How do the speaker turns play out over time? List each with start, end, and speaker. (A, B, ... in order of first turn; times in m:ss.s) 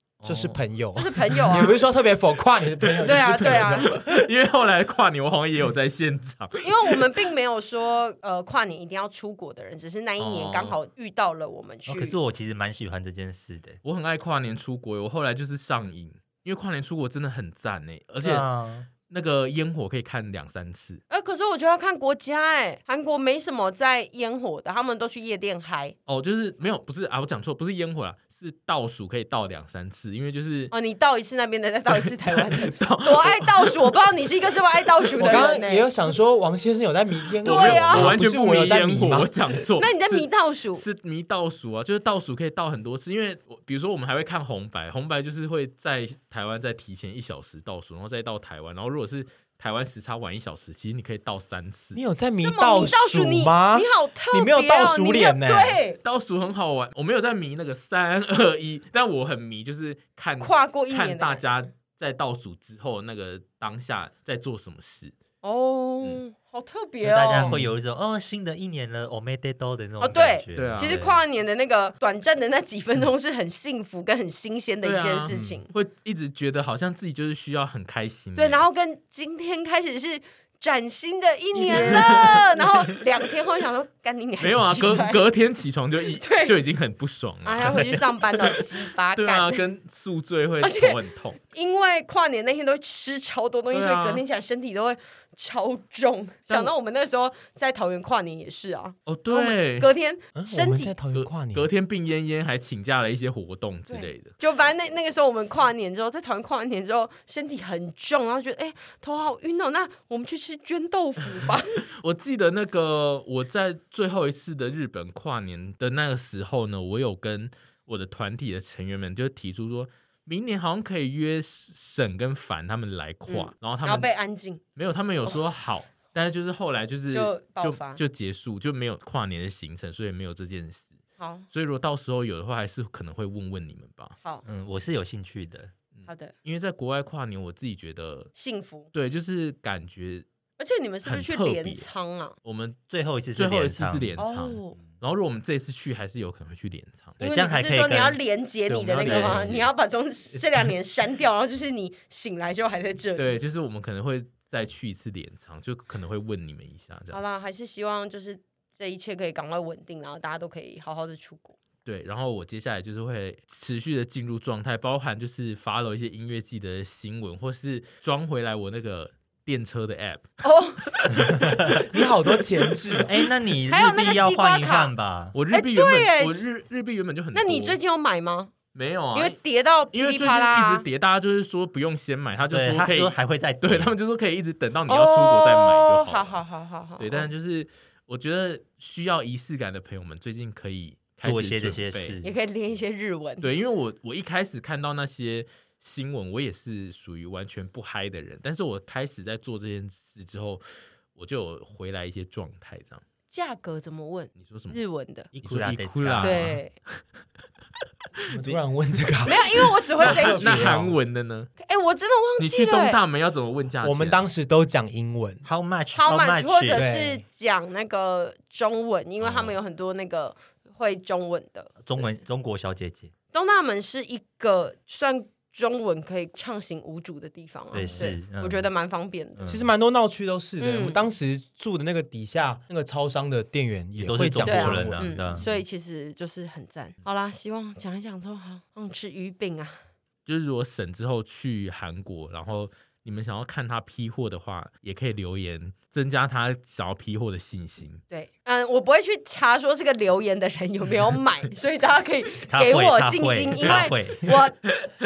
0:00.2-0:00.6 A
0:00.2-0:04.2 B
0:01.0-0:01.8 C
0:03.0-0:03.9 C
0:03.4-0:07.0 A
0:06.6-0:12.2 C
0:10.2-0:10.8 A
0:11.9-0:13.8 D
0:13.8-0:18.5 A
0:18.2-0:18.9 D
0:19.1-0:21.0 A
0:21.1-0:26.0 C
0:26.1-0:30.7 A
0:30.7-0:36.0 C
0:31.9-0:34.0 A
0:35.2-0:39.6 B
0:37.4-0:38.2 C
0:37.4-0:52.0 A
0:39.8-0:40.8 C
0:52.0-0:55.8 B
0:52.4-0:56.0 C
0:56.0-1:05.1 A
1:00.4-1:01.5 C
1:05.4-1:07.6 C
1:07.0-1:11.2 D
1:07.4-1:07.7 A
1:10.0-1:15.7 C
1:10.6-1:11.0 A
1:14.8-1:18.6 A
1:15.3-1:15.6 B
1:18.4-1:25.2 C
1:21.5-1:22.8 A
1:24.4-1:28.6 A
1:26.2-1:26.6 C
1:27.4-1:29.7 C
1:29.2-1:31.4 A
1:30.6-1:31.0 C
1:31.5-1:41.0 C
1:33.7-1:34.2 A
1:39.1-1:39.9 A
1:40.4-1:41.7 B
1:41.1-1:44.3 A
1:43.9-1:51.8 C
1:52.0-2:04.1 A
2:03.3-2:04.6 C
2:04.8-2:11.0 A
2:07.1-2:08.0 C
2:11.2-2:11.5 C
2:11.5-2:14.2 A
2:14.4-2:15.7 D
2:15.9-2:18.3 A
2:16.1-2:16.3 C
2:18.4-2:18.9 C
2:18.9-2:20.2 A
2:20.6-2:22.4 C
2:21.0-2:21.9 A
2:22.4-2:22.8 A
2:22.9-2:24.2 D
2:23.3-2:27.2 A
2:24.2-2:24.8 C
2:27.2-2:28.2 D
2:27.2-2:33.4 C
2:28.7-2:29.7 A
2:29.0-2:29.5 D
2:33.2-2:37.2 A
2:37.1-2:41.6 C
2:41.8-2:50.3 A
2:50.4-2:51.3 C
2:51.5-2:53.2 B
2:53.1-2:55.4 D
2:53.7-2:54.9 C
2:55.3-2:57.8 A
2:55.5-2:56.4 C
2:57.3-2:58.5 C
2:58.7-2:59.4 A
2:59.1-3:00.8 C
2:59.9-3:06.4 A
3:02.5-3:03.9 D
3:04.9-3:07.3 C
3:07.0-3:12.2 A
3:11.2-3:12.4 D
3:12.2-3:13.5 C
3:13.4-3:23.0 A
3:23.3-3:25.3 C
3:24.4-3:24.8 A
3:25.3-3:26.6 D
3:25.4-3:27.0 A
3:26.2-3:26.7 C
3:28.3-3:31.0 B
3:29.2-3:30.8 C
3:30.0-3:31.5 A
3:31.6-3:33.0 C
3:32.4-3:34.3 A
3:33.8-3:35.4 B
3:35.4-3:36.9 D
3:35.9-3:42.1 C
3:36.7-3:37.2 B
3:39.2-3:39.6 D
3:41.8-3:43.1 D
3:43.3-3:49.4 C
3:47.7-3:48.7 D
3:49.4-3:49.7 D
3:49.5-3:55.4 B
3:50.6-3:51.0 C
3:54.0-3:55.5 D
3:54.4-3:59.8 C
4:00.3-4:08.0 A
4:08.1-4:14.6 C
4:12.5-4:14.4 D